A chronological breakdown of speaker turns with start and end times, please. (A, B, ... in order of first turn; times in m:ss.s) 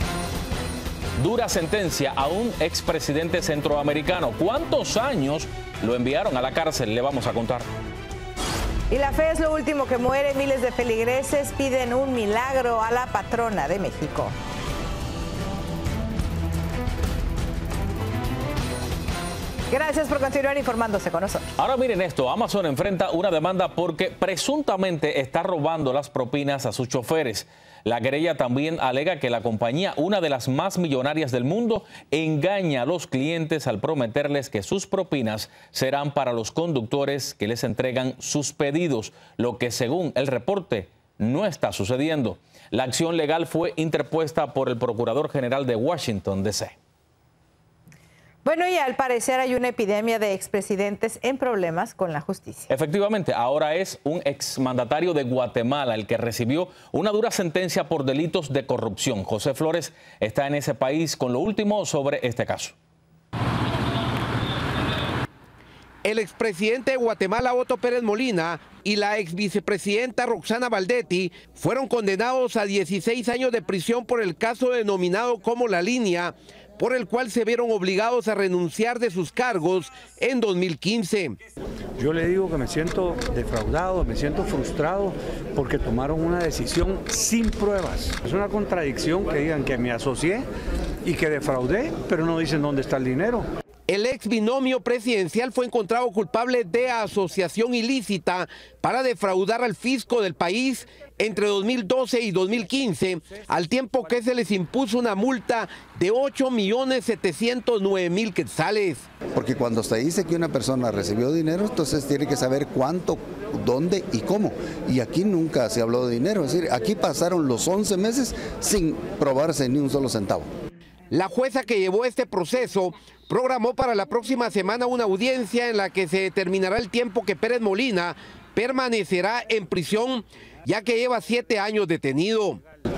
0:01.2-0:07.7 A
0:08.9-0:14.3 B
0:19.7-0:21.5 B
0:21.6-0:46.7 A
0:48.4-0:52.7 B
0:52.7-1:02.7 A
1:06.0-1:21.4 C
1:22.0-1:30.4 D
1:31.0-1:33.4 D
1:33.9-1:49.1 C
1:49.3-2:00.5 E
2:01.1-2:12.6 C